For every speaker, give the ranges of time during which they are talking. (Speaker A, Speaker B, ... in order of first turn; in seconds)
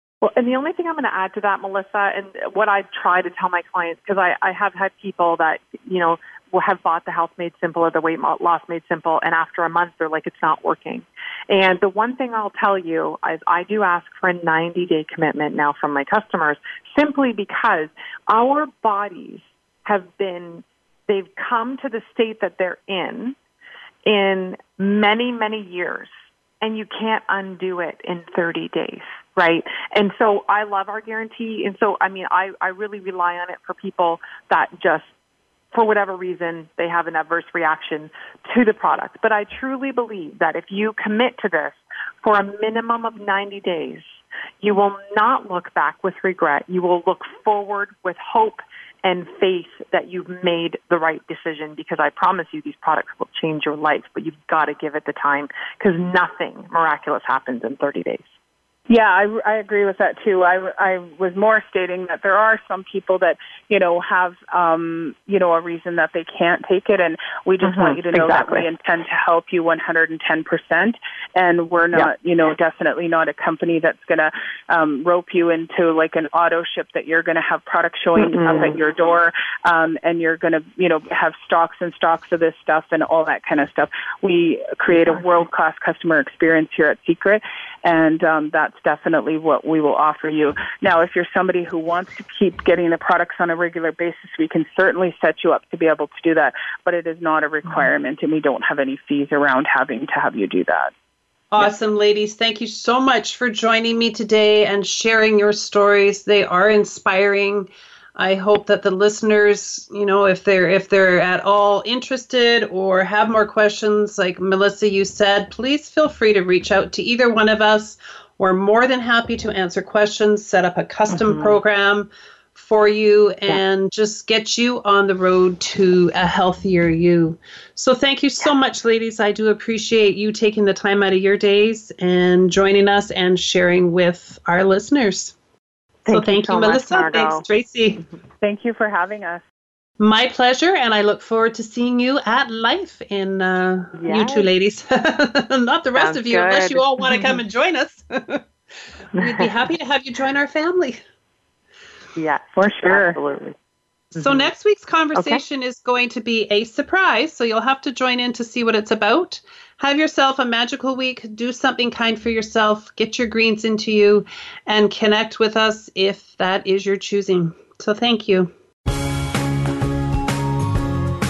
Speaker A: 0.2-23.4, 24.1-35.1, 35.7-44.1, 44.6-58.3, 67.6-68.7, 78.2-78.8, 121.1-121.6, 136.1-137.4, 143.9-144.5, 145.9-147.4, 149.2-149.6, 152.2-153.6, 154.1-154.5, 155.1-155.4
Speaker B: 58.9-100.9, 138.4-139.4, 152.6-153.2
Speaker C: 101.5-135.3, 136.1-138.1, 140.0-148.5, 149.2-151.0, 154.2-168.5